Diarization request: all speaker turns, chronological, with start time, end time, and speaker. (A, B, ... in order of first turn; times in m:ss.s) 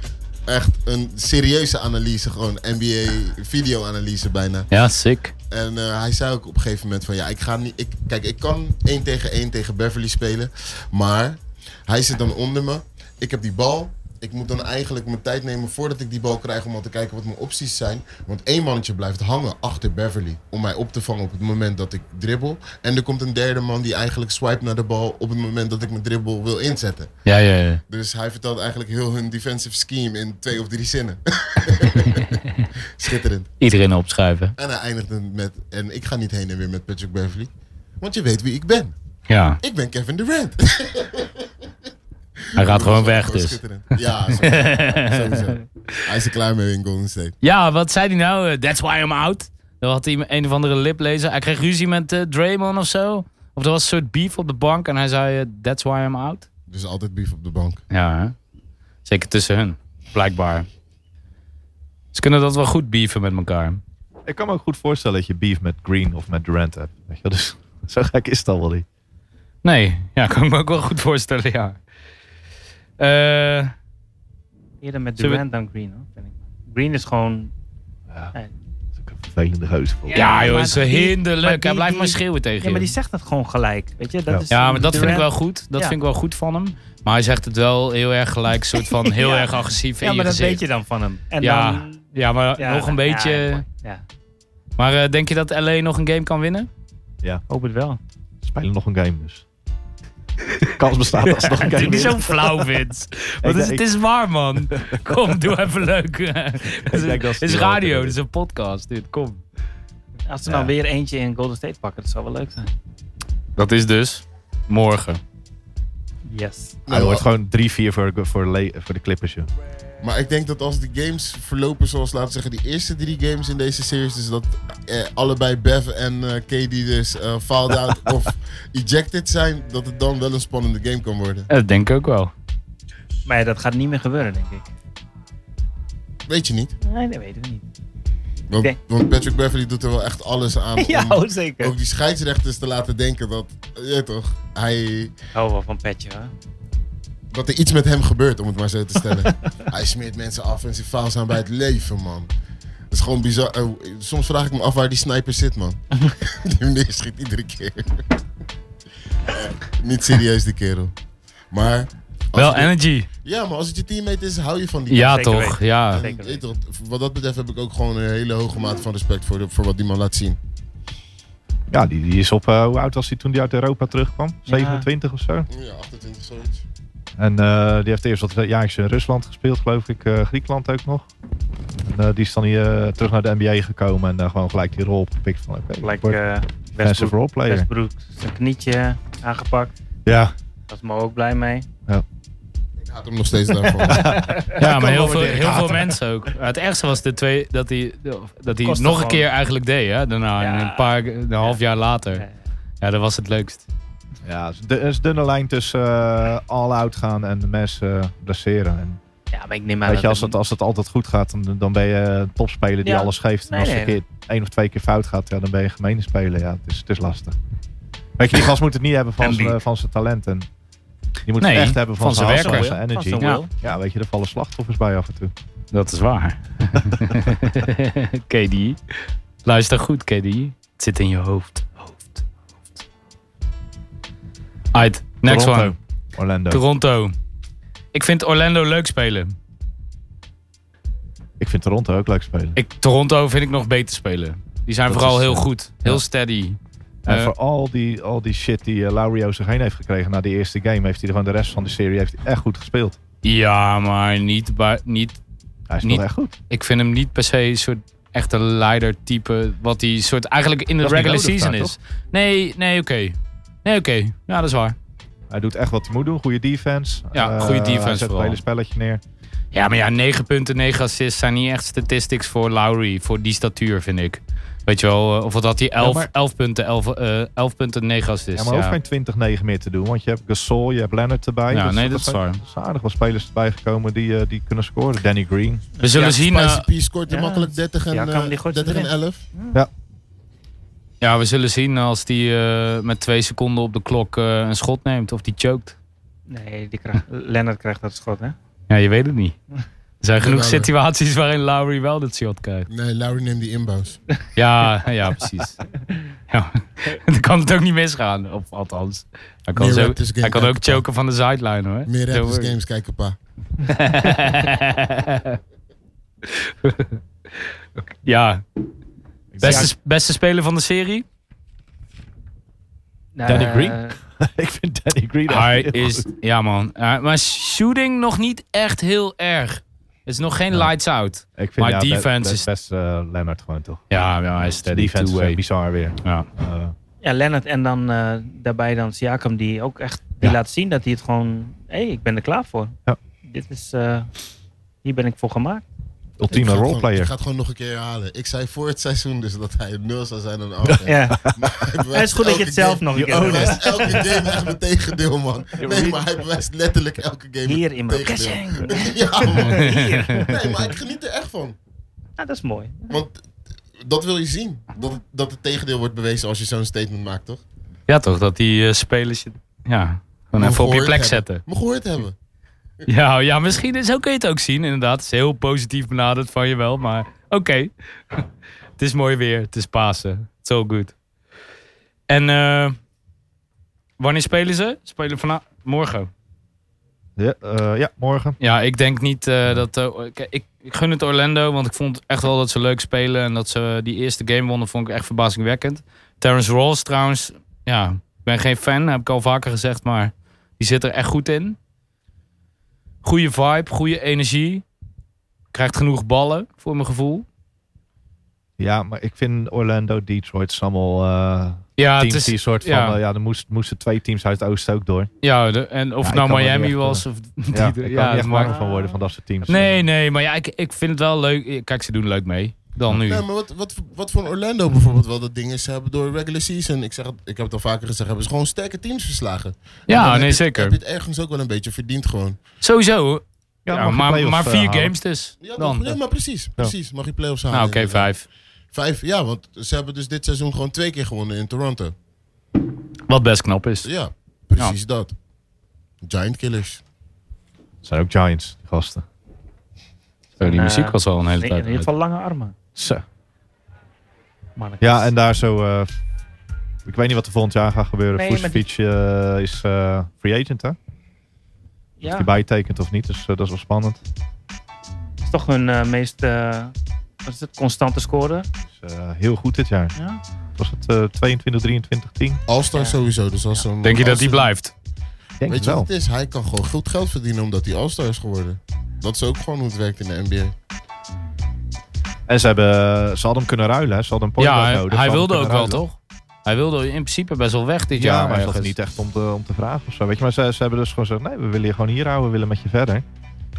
0:00.5-0:04.7 A
0:04.7-0:05.3 B
0:05.5-0:27.1 A
0:27.2-0:27.8 B
0:27.9-0:33.5 A
0:32.1-0:32.6 B
0:33.6-0:34.6 B
0:34.6-0:38.9 A
0:39.3-0:39.6 B
0:39.6-0:41.5 A
0:42.5-0:47.4 A
0:42.6-0:43.6 B
0:44.4-0:45.4 B
0:47.4-0:56.5 B
0:56.7-0:57.8 A
0:57.9-0:58.4 B
0:59.0-1:00.7 B
1:02.1-1:03.8 B
1:04.2-1:08.8 C
1:09.6-1:11.8 B
1:13.0-1:13.7 B
1:14.8-1:17.5 D
1:19.0-1:20.2 C
1:20.1-1:26.0 D
1:20.1-1:22.9 B
1:24.5-1:30.6 B
1:28.7-1:32.0 D
1:31.4-1:33.6 B
1:32.6-1:34.0 D
1:34.8-1:36.7 B
1:37.5-1:38.0 D
1:38.4-1:39.4 C
1:40.8-1:42.3 C
1:41.3-1:49.4 B
1:43.4-1:43.8 C
1:44.7-1:45.3 C
1:46.8-1:48.2 C
1:50.3-1:52.7 D
1:50.5-1:50.7 C
1:53.6-1:55.2 B
1:56.3-1:56.8 D
1:56.9-1:57.2 A
1:56.9-1:59.5 C
2:00.0-2:11.5 A
2:11.5-2:12.3 B
2:13.3-2:14.7 D
2:16.3-2:16.7 A
2:16.8-2:17.7 D
2:18.5-2:25.2 A
2:20.8-2:21.8 D
2:25.3-2:26.3 D
2:27.3-2:32.3 A
2:32.9-2:38.0 A
2:39.3-2:40.9 A
2:41.5-2:50.4 A
2:42.4-2:43.1 B
2:44.9-2:46.0 B
2:45.1-2:46.4 D
2:51.7-2:55.5 C
2:54.5-2:54.9 D
2:55.5-2:56.6 A
2:57.2-3:01.1 C
3:01.8-3:06.2 C
3:05.8-3:09.7 D
3:06.8-3:07.7 C
3:10.1-3:10.3 C
3:10.7-3:11.7 D
3:12.8-3:14.1 A
3:13.7-3:14.5 D
3:13.9-3:16.0 C
3:14.5-3:22.2 B
3:18.6-3:19.3 D
3:20.4-3:21.6 D
3:22.8-3:23.7 B
3:24.2-3:29.0 C
3:29.3-3:30.4 D
3:29.9-3:37.4 C
3:32.8-3:34.0 D
3:38.2-3:40.5 C
3:39.2-3:39.5 B
3:41.3-3:45.3 C
3:41.4-3:42.8 B
3:42.1-3:43.5 D
3:45.7-3:52.2 B
3:46.8-3:47.4 C
3:54.7-3:55.7 B
3:55.2-3:56.6 C
3:56.5-3:57.1 B
3:57.9-3:59.4 B
4:01.4-4:02.6 C
4:02.6-4:07.3 B
4:04.9-4:06.0 C
4:07.0-4:13.0 C
4:13.2-4:15.2 B
4:15.7-4:16.4 C
4:15.8-4:24.8 B
4:20.8-4:21.8 C
4:25.3-4:29.0 C
4:27.1-4:28.4 B
4:29.5-4:38.8 B
4:35.8-4:36.1 C
4:38.4-4:45.6 C
4:41.5-4:42.4 B
4:45.8-4:46.7 B
4:46.0-4:49.2 A
4:47.1-4:49.6 D
4:51.0-4:55.8 B
4:56.3-4:58.4 D
4:58.7-4:59.4 B
5:00.0-5:02.7 B
5:00.2-5:00.7 A
5:02.7-5:04.0 A
5:04.4-5:05.6 B
5:06.3-5:12.6 B
5:09.6-5:10.8 A
5:11.9-5:13.2 A
5:13.6-5:15.4 B
5:16.2-5:17.0 B
5:17.9-5:18.4 B
5:19.3-5:19.7 C
5:19.4-5:21.0 B
5:19.4-5:19.7 D
5:23.2-5:24.0 D
5:23.2-5:26.1 C
5:25.3-5:32.5 B
5:31.4-5:33.9 C
5:33.9-5:35.4 B
5:34.5-5:36.8 C
5:36.0-5:36.3 B
5:37.0-5:44.1 D
5:44.8-5:45.6 D
5:46.2-5:47.1 C
5:46.3-6:01.6 A
5:50.6-5:51.6 C
5:50.9-5:51.3 D
5:51.9-5:54.0 D
5:53.0-5:54.0 C
5:55.6-5:56.1 D
5:57.4-6:00.7 D
5:59.5-6:00.3 B
6:02.2-6:03.0 D
6:02.9-6:03.2 A
6:03.8-6:07.4 A
6:07.9-6:11.4 B
6:10.4-6:12.2 A
6:12.9-6:18.2 B
6:18.8-6:21.0 B
6:22.1-6:22.8 B
6:24.0-6:26.1 B
6:27.2-6:28.4 C
6:28.4-6:41.6 B
6:43.0-6:44.6 B
6:45.5-6:47.3 B
6:48.6-6:55.1 C
6:51.8-6:53.0 B
6:55.2-6:58.5 B
6:56.0-6:59.9 C
6:58.4-6:59.0 D
6:59.5-7:03.2 B
7:03.0-7:12.4 A
7:09.9-7:10.8 B
7:12.6-7:16.0 B
7:13.7-7:15.0 C
7:15.4-7:18.1 A
7:17.5-7:18.3 B
7:18.7-7:22.0 A
7:23.1-7:23.9 B
7:23.8-7:25.1 A
7:26.0-7:26.8 A
7:27.8-7:29.0 C
7:30.4-7:31.9 B
7:30.4-7:32.5 D
7:32.8-7:33.0 C
7:34.6-7:35.1 D
7:34.8-7:35.9 C
7:36.8-7:40.8 C
7:38.1-7:38.6 D
7:42.0-7:42.3 D
7:42.1-7:44.0 C
7:45.2-7:46.7 D
7:47.2-7:48.5 D
7:48.7-7:50.0 C
7:50.0-7:50.2 D
7:50.6-7:52.4 C
7:52.5-7:54.5 A
7:53.8-7:54.7 B
7:55.4-7:55.9 C
7:55.5-8:00.5 A
8:02.3-8:05.8 C
8:04.4-8:08.8 B
8:07.9-8:13.0 C